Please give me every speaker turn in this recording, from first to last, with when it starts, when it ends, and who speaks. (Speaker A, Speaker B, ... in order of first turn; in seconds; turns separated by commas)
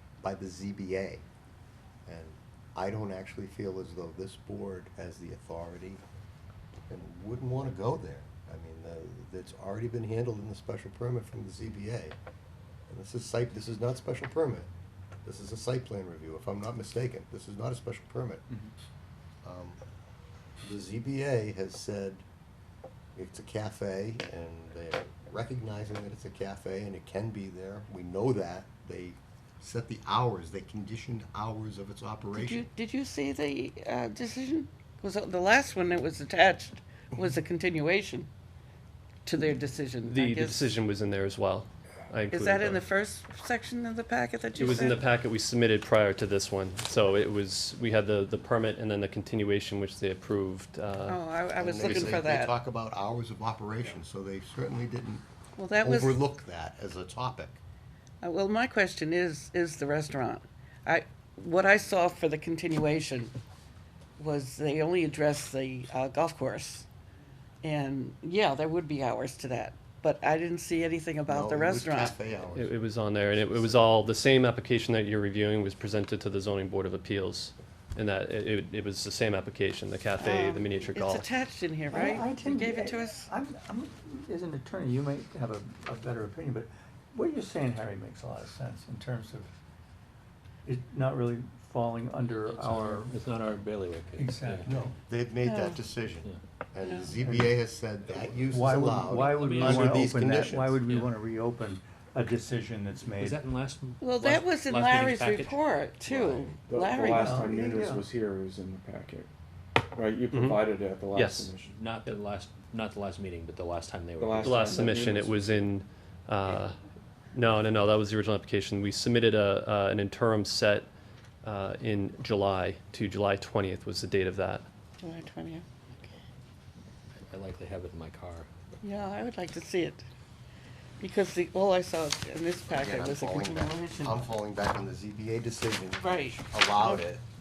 Speaker A: 0.2-1.2, Speaker A: 2.1-6.0, Speaker A: 6.9-12.2, Speaker A: 12.9-14.7, Speaker A: 15.2-18.4, Speaker A: 19.4-19.8, Speaker A: 20.6-22.2, Speaker A: 23.2-32.7, Speaker B: 32.3-38.3, Speaker B: 39.2-40.8, Speaker C: 40.1-42.9, Speaker B: 42.3-45.0, Speaker C: 44.5-51.2, Speaker B: 51.1-52.6, Speaker A: 51.6-55.2, Speaker B: 55.6-56.2, Speaker A: 55.8-57.6, Speaker B: 58.2-63.3, Speaker B: 64.2-66.9, Speaker B: 67.6-72.1, Speaker A: 71.3-73.9, Speaker C: 72.5-81.3, Speaker B: 80.2-83.3, Speaker D: 81.9-89.5, Speaker D: 90.7-93.2, Speaker E: 92.4-94.7, Speaker D: 94.2-94.9, Speaker A: 94.7-100.8, Speaker B: 95.5-95.8, Speaker D: 97.1-97.6, Speaker D: 98.5-103.5, Speaker E: 99.4-99.9, Speaker E: 103.1-105.6, Speaker B: 104.0-107.4, Speaker F: 106.2-109.3, Speaker D: 107.1-108.0, Speaker F: 110.0-111.8, Speaker C: 110.3-110.6, Speaker C: 111.1-111.5, Speaker E: 111.7-115.0, Speaker F: 114.2-115.4, Speaker C: 114.4-116.8, Speaker C: 117.3-120.9, Speaker C: 121.4-124.7, Speaker B: 125.0-126.1, Speaker E: 127.3-128.5, Speaker B: 128.8-130.0, Speaker B: 131.0-134.2, Speaker A: 132.7-137.2, Speaker B: 136.0-136.4